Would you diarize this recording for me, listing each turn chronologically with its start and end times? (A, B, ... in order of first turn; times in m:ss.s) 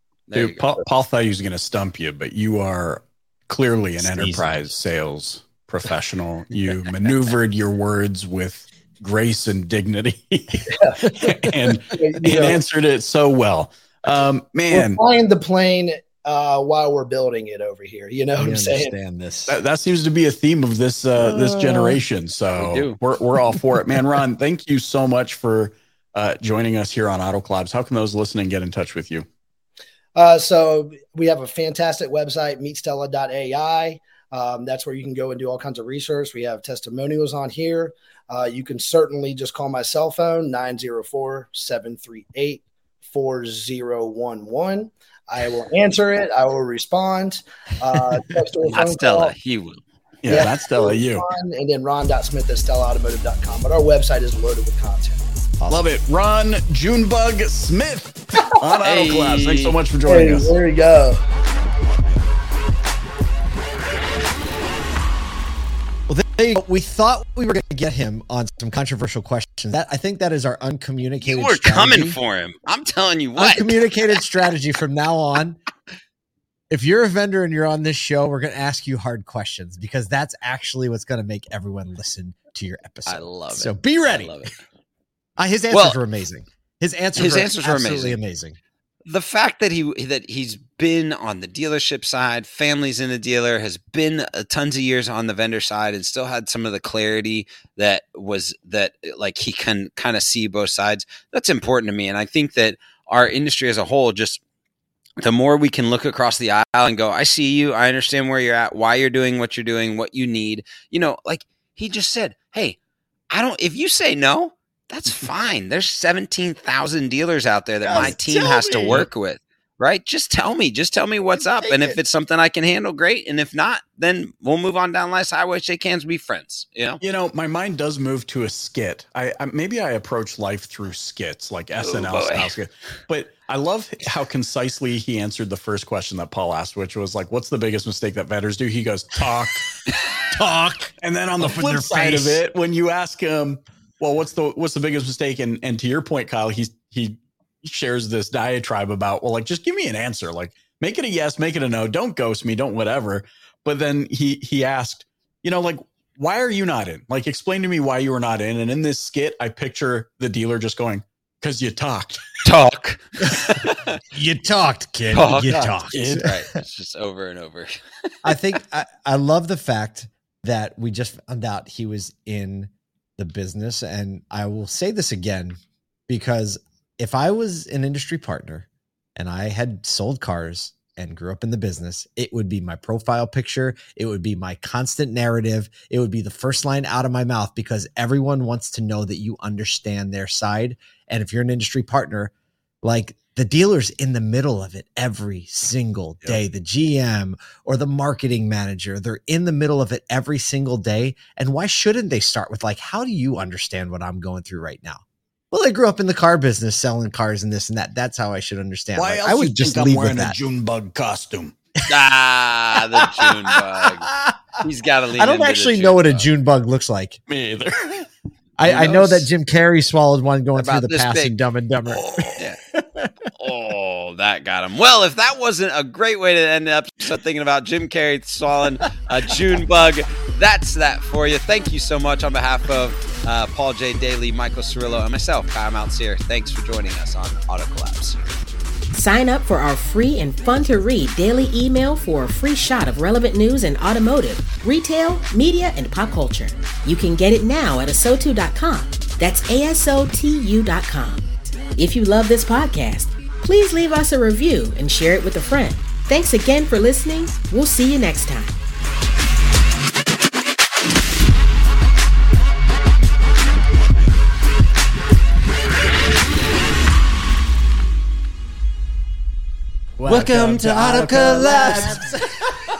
0:00.3-0:00.6 A
0:00.3-0:15.0 B
0:04.0-0:04.7 C
0:10.7-0:11.2 D
0:11.9-0:12.6 D
0:14.7-0:18.9 D
0:18.4-0:19.6 C
0:19.5-0:29.3 B
0:21.2-0:22.0 C
0:22.5-0:23.0 A
0:30.1-0:49.3 D
0:48.6-0:49.8 A
0:50.2-0:51.2 B
0:50.3-0:55.2 D
0:55.6-0:55.8 C
0:55.7-1:00.5 B
0:58.8-0:59.8 A
1:00.0-1:01.2 D
1:06.1-1:12.2 C
1:11.2-1:13.8 A
1:13.4-1:15.6 C
1:16.7-1:24.4 C
1:23.0-1:24.6 A
1:25.4-1:28.6 C
1:25.7-1:26.0 A
1:27.1-1:28.2 A
1:29.0-1:44.4 A
1:45.2-1:52.8 A
1:53.3-2:07.0 A
1:57.8-1:59.0 C
2:01.6-2:02.0 C
2:07.0-2:19.6 B
2:11.8-2:12.5 A
2:20.3-2:22.4 C
2:21.0-2:42.3 B
2:42.4-2:43.9 A
2:44.1-2:46.4 C
2:45.1-2:47.8 A
2:45.9-2:46.3 B
2:48.2-2:55.6 C
2:56.1-3:12.3 C
3:12.8-3:25.0 C
3:25.5-3:30.4 C
3:29.0-3:31.5 B
3:31.9-3:34.1 A
3:33.1-3:33.5 C
3:34.1-3:34.6 C
3:34.6-3:36.3 A
3:35.2-3:37.2 C
3:37.3-3:38.1 B
3:38.6-3:43.1 C
3:38.6-3:39.3 B
3:40.5-3:41.4 A
3:41.8-3:42.4 B
3:43.4-3:58.2 A
3:58.9-4:11.2 E
4:11.8-4:18.6 E
4:30.0-4:32.2 C
4:30.0-4:32.0 A